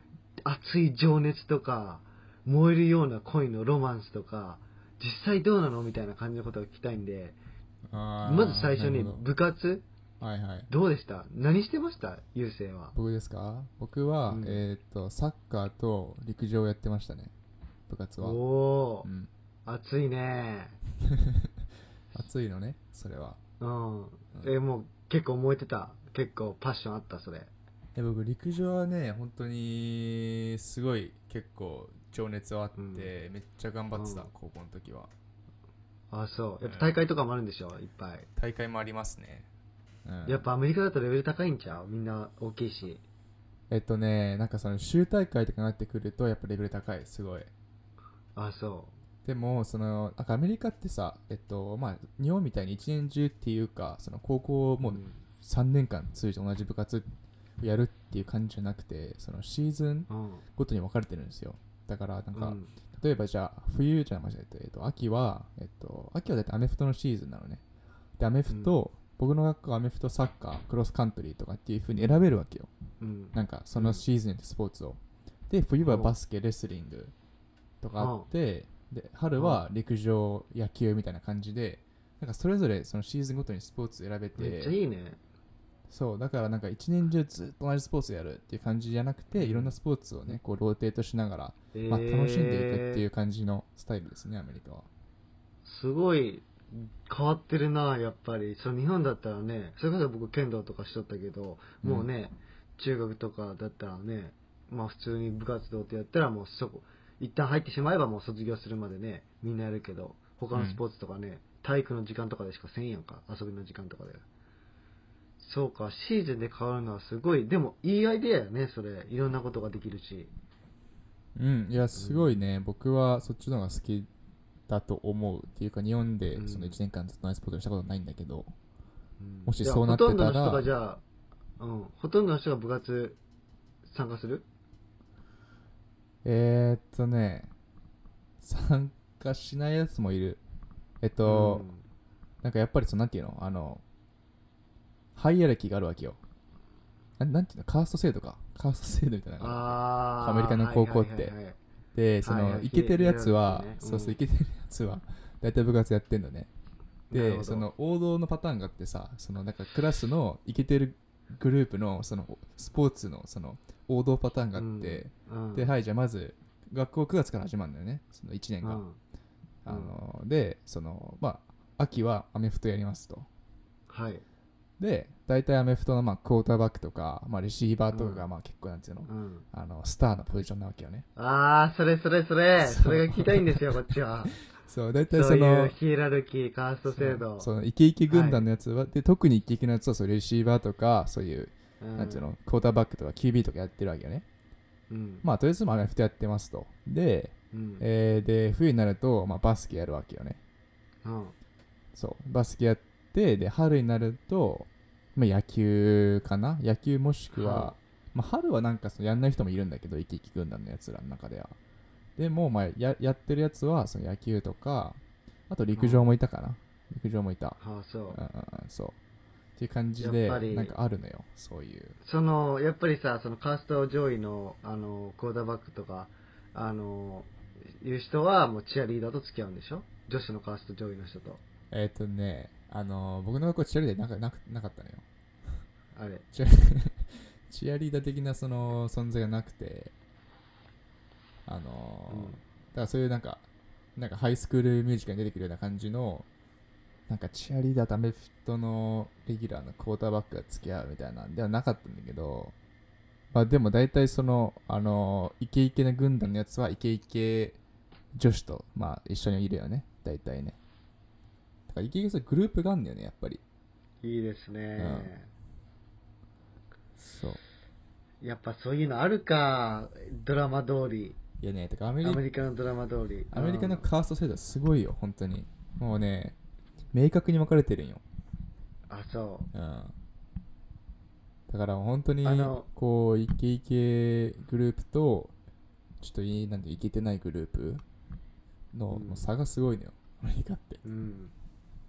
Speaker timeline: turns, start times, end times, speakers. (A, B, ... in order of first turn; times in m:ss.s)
0:00.4-0:07.4 A
0:07.9-0:09.2 B
0:08.2-0:09.8 A
0:10.2-0:10.7 B
0:10.7-0:12.9 A
0:13.0-0:17.3 B
0:14.3-0:14.6 A
0:17.9-0:18.4 B
0:18.2-0:19.1 A
0:19.0-0:19.3 B
0:19.7-0:20.8 A
0:21.1-0:21.5 B
0:22.2-0:23.4 B
0:23.6-0:27.5 A
0:28.0-0:35.1 B
0:32.8-0:33.1 A
0:34.0-0:34.3 A
0:36.1-0:38.3 A
0:36.6-0:37.0 B
0:38.4-0:39.5 B
0:40.1-0:40.4 B
0:40.2-0:43.0 A
0:43.7-0:47.5 B
0:48.4-0:49.0 A
0:49.2-0:57.1 B
0:54.8-0:55.2 A
0:57.6-1:07.6 B
1:00.1-1:00.4 A
1:02.3-1:02.7 A
1:08.2-1:12.7 B
1:08.5-1:08.8 A
1:13.0-1:14.0 A
1:13.3-1:17.1 B
1:15.8-1:16.1 A
1:17.8-1:24.8 B
1:18.0-1:18.3 A
1:19.4-1:19.6 A
1:24.4-1:25.2 A
1:25.9-1:34.9 B
1:29.4-1:29.8 A
1:31.7-1:33.0 A
1:35.6-1:54.2 A
1:41.8-1:42.1 B
1:50.5-1:50.8 B
1:55.4-2:00.3 A
2:01.4-2:04.1 B
2:02.0-2:02.5 A
2:04.7-2:08.5 B
2:06.3-2:06.8 A
2:09.2-2:11.0 A
2:09.5-2:10.7 B
2:11.6-2:13.2 A
2:13.9-2:14.4 A
2:16.2-2:17.5 B
2:18.4-2:20.4 B
2:21.0-2:21.6 B
2:21.2-2:21.8 A
2:22.4-2:23.8 B
2:25.2-2:26.2 B
2:27.2-2:31.3 B
2:29.4-2:31.6 A
2:31.9-2:36.5 B
2:32.2-2:34.2 A
2:37.1-2:37.7 A
2:37.1-2:48.8 B
2:44.5-2:45.7 A
2:48.6-2:49.0 A
2:49.6-2:53.3 B
2:49.7-2:50.0 A
2:53.9-2:54.2 A
2:54.8-3:01.0 B
2:57.9-2:58.3 A
2:59.1-2:59.4 A
3:01.2-3:04.4 A
3:02.6-3:03.8 B
3:04.3-3:05.8 B
3:05.1-3:07.5 A
3:06.9-3:14.2 B
3:08.1-3:08.4 A
3:11.8-3:12.2 A
3:14.9-3:15.2 A
3:15.2-3:20.4 B
3:17.5-3:17.9 A
3:21.0-3:21.4 A
3:21.9-3:31.6 B
3:27.3-3:27.8 A
3:32.2-3:37.6 B
3:35.8-3:36.1 A
3:37.6-3:38.2 A
3:38.1-3:39.0 B
3:39.6-3:42.0 B
3:40.0-3:40.7 A
3:42.0-3:51.4 A
3:51.7-3:55.0 B
3:56.0-3:56.2 A
3:56.3-3:59.9 B
4:01.5-4:03.4 B
4:02.1-4:02.4 A
4:04.0-4:06.3 B
4:07.1-4:12.5 B
4:13.3-4:17.6 B
4:18.2-4:20.6 B
4:21.7-4:23.4 B
4:24.0-4:25.3 A
4:24.8-4:25.1 B
4:27.0-4:27.4 B
4:28.2-4:31.2 A
4:31.4-4:32.2 B
4:32.0-4:33.9 A
4:33.3-4:36.4 B
4:36.9-4:38.0 B
4:38.9-4:39.5 A
4:39.5-4:40.0 B
4:41.5-4:45.3 B
4:42.2-4:42.7 A
4:46.0-4:47.8 B
4:48.7-4:50.8 B
4:48.9-4:49.3 A
4:50.8-4:51.3 A